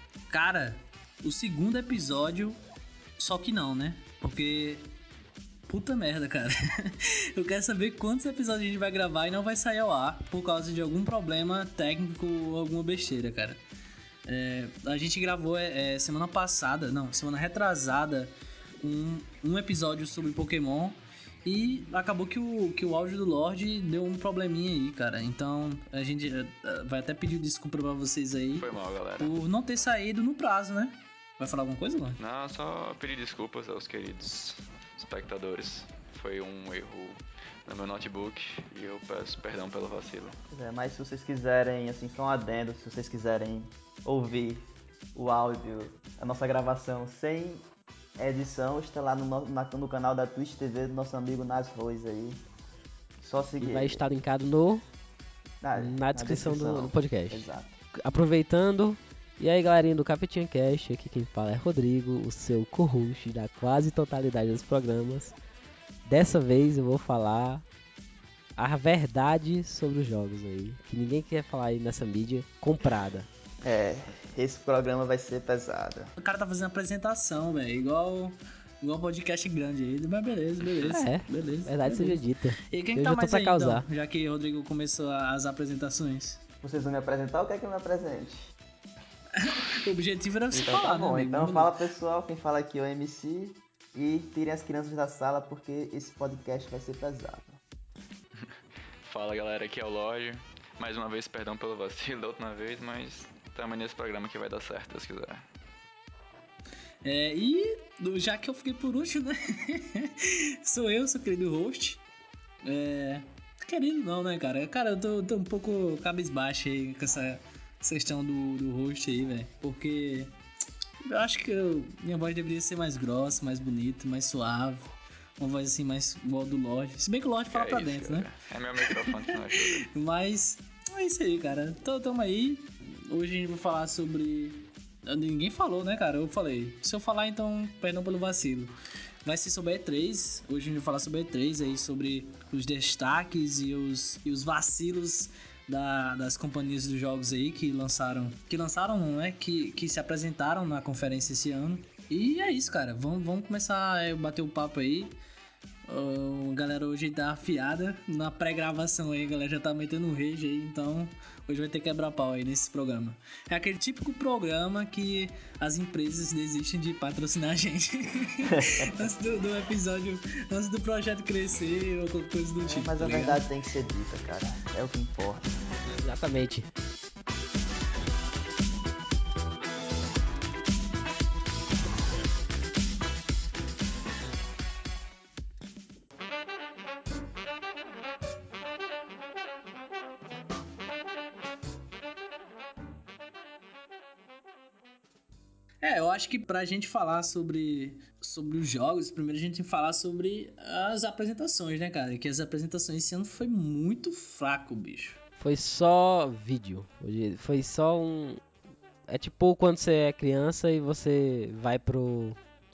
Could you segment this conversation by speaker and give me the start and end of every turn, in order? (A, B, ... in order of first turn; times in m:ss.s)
0:00.3-0:02.6 A
0:03.2-0:04.9 A
0:05.7-0:13.6 A
0:14.2-0:28.7 A
0:28.6-0:29.3 B
0:29.2-0:32.2 A
0:32.2-0:40.4 B
0:40.5-0:47.6 C
0:48.2-0:52.4 C
0:53.2-0:54.0 C
0:53.6-0:54.8 D
0:55.6-0:57.8 C
0:55.8-1:05.4 D
1:06.0-1:07.6 D
1:08.6-1:13.3 D
1:13.6-1:16.1 C
1:16.2-1:26.4 A
1:20.6-1:21.0 B
1:20.8-1:23.8 D
1:26.6-1:28.5 C
1:29.4-1:31.7 A
1:30.5-1:37.6 C
1:38.4-1:45.4 B
1:47.0-1:52.0 A
1:52.6-2:00.3 A
2:01.0-2:08.3 A
2:07.5-2:09.9 B
2:09.0-2:18.7 A
2:19.2-2:35.2 A
2:35.8-2:53.4 A
2:48.5-2:48.9 C
2:52.6-2:55.6 C
2:56.0-2:56.7 D
3:15.8-3:25.2 A
3:25.4-3:28.4 D
3:29.1-3:32.4 D